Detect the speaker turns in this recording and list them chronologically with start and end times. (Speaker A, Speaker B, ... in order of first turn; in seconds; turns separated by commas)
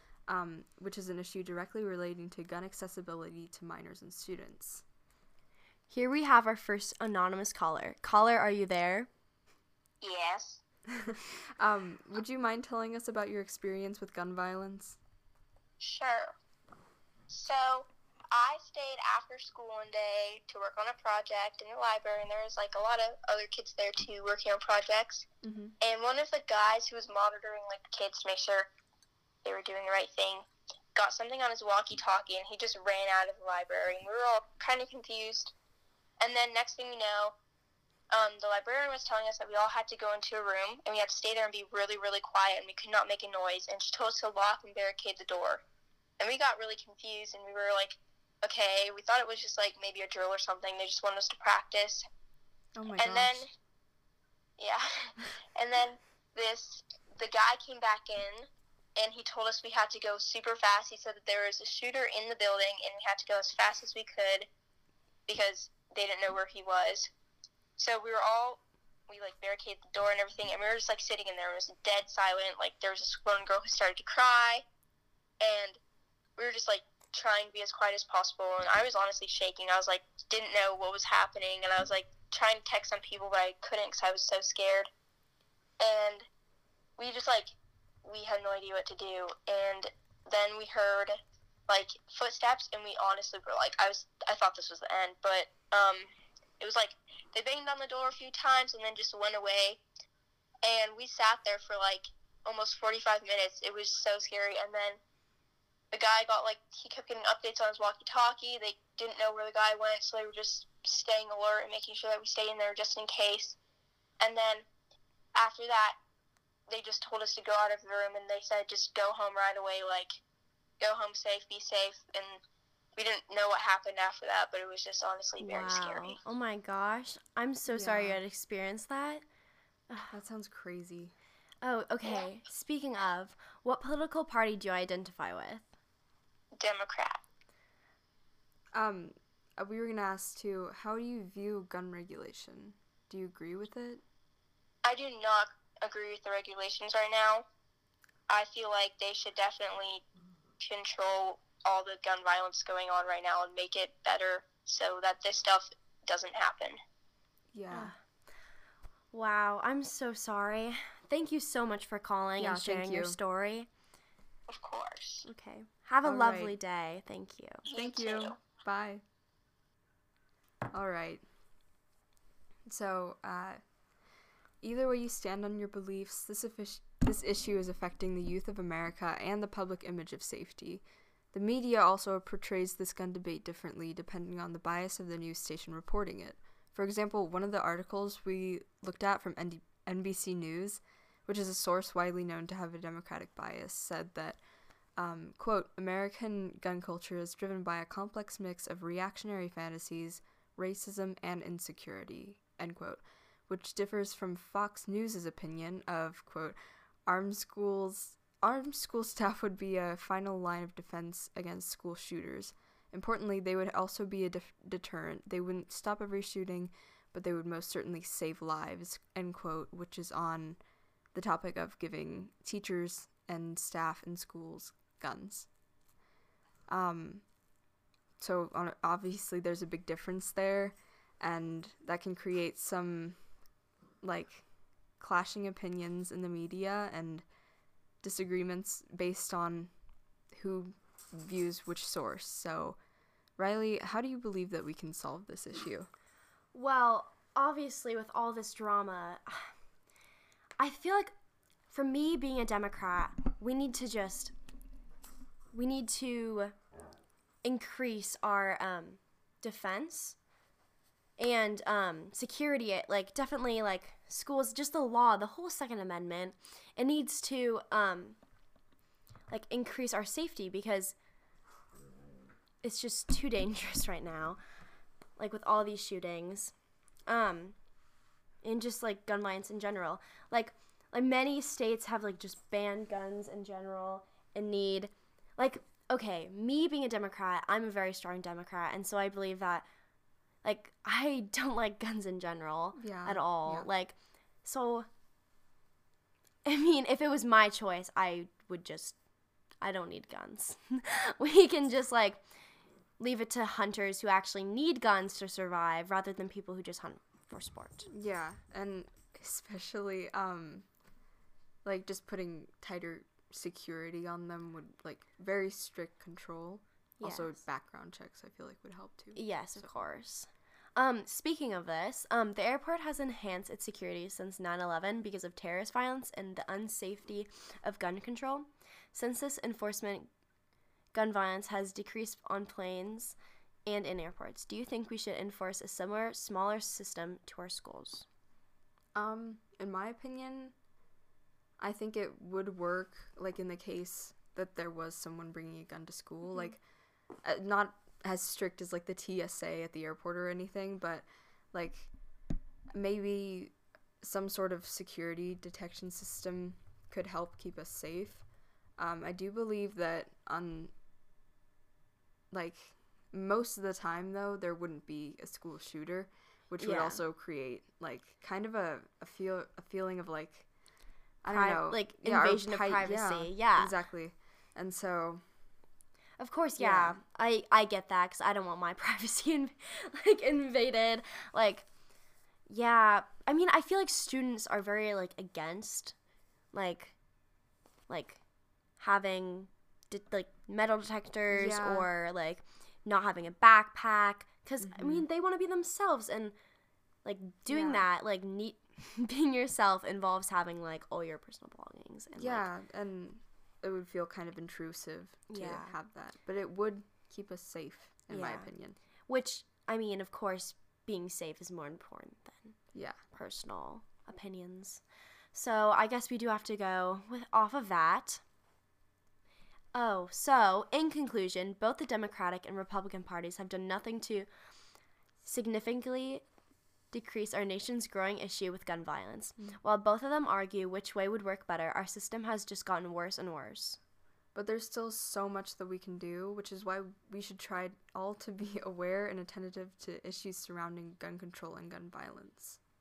Speaker A: 0.3-4.8, Speaker B: 5.9-9.1, Speaker C: 10.0-10.6, Speaker A: 11.0-15.0, Speaker C: 15.8-16.3, Speaker C: 17.3-25.2, Speaker A: 25.4-25.7, Speaker C: 25.8-28.7, Speaker C: 29.4-35.5, Speaker C: 36.2-37.3, Speaker C: 38.1-45.6, Speaker C: 46.2-52.0, Speaker A: 52.8-53.4, Speaker C: 53.0-53.5, Speaker C: 54.6-64.5, Speaker C: 65.3-67.1, Speaker C: 67.8-74.6, Speaker C: 75.4-75.8, Speaker C: 76.4-84.9, Speaker C: 85.8-86.2, Speaker C: 87.0-91.2, Speaker C: 91.7-99.8, Speaker C: 100.6-105.0, Speaker C: 105.9-113.6, Speaker C: 114.2-114.7, Speaker C: 115.3-116.0, Speaker C: 116.7-120.2, Speaker C: 120.8-122.4, Speaker C: 123.0-126.2, Speaker B: 125.4-129.2, Speaker A: 127.7-128.2, Speaker A: 130.1-131.1, Speaker B: 131.6-135.6, Speaker C: 136.6-137.2, Speaker A: 138.7-144.0, Speaker C: 144.8-147.4, Speaker C: 148.3-150.0, Speaker C: 150.6-156.8, Speaker A: 157.5-157.9, Speaker B: 157.7-157.9, Speaker B: 159.1-163.7, Speaker A: 162.4-163.2, Speaker C: 164.5-165.2, Speaker B: 165.2-167.6, Speaker A: 166.0-166.5, Speaker C: 167.7-168.3, Speaker A: 167.7-169.0, Speaker A: 170.7-171.2, Speaker A: 172.7-173.6, Speaker A: 174.6-194.4, Speaker A: 195.0-220.6, Speaker A: 221.1-225.5, Speaker A: 226.7-227.2, Speaker A: 228.2-233.2, Speaker A: 234.0-234.4, Speaker A: 235.0-237.2, Speaker A: 238.0-239.7, Speaker A: 240.3-242.8, Speaker A: 243.4-245.9, Speaker B: 246.5-249.5, Speaker B: 250.6-251.1, Speaker B: 251.7-254.3, Speaker B: 255.5-256.5, Speaker B: 257.4-260.2, Speaker B: 261.2-268.2, Speaker B: 269.3-270.9, Speaker B: 272.6-274.4, Speaker B: 275.2-276.5, Speaker B: 277.1-277.6, Speaker B: 278.4-289.6, Speaker B: 290.4-294.9, Speaker A: 292.8-293.7, Speaker B: 296.4-298.9, Speaker B: 299.6-302.2, Speaker B: 303.0-307.9, Speaker A: 307.9-310.6, Speaker A: 311.6-319.7, Speaker B: 317.0-317.3, Speaker B: 319.1-330.1, Speaker B: 330.9-338.1, Speaker A: 338.9-340.5, Speaker A: 341.6-346.6, Speaker A: 347.2-351.9, Speaker A: 352.7-358.2, Speaker A: 358.8-360.7, Speaker A: 362.3-370.5, Speaker B: 366.6-367.0, Speaker A: 371.2-375.2, Speaker B: 371.3-373.7, Speaker B: 376.2-381.7, Speaker A: 376.6-377.0, Speaker B: 382.5-385.9, Speaker B: 386.5-386.9, Speaker B: 387.9-388.2, Speaker B: 388.8-396.3, Speaker A: 391.3-391.9, Speaker A: 394.6-395.1, Speaker B: 397.0-402.5, Speaker A: 397.4-397.9, Speaker A: 402.1-408.8, Speaker B: 405.3-405.7, Speaker B: 408.1-408.5, Speaker B: 409.1-412.6, Speaker B: 413.1-414.8, Speaker B: 415.3-418.2, Speaker B: 419.7-424.3, Speaker B: 425.2-426.2, Speaker B: 426.9-433.8, Speaker A: 434.3-442.6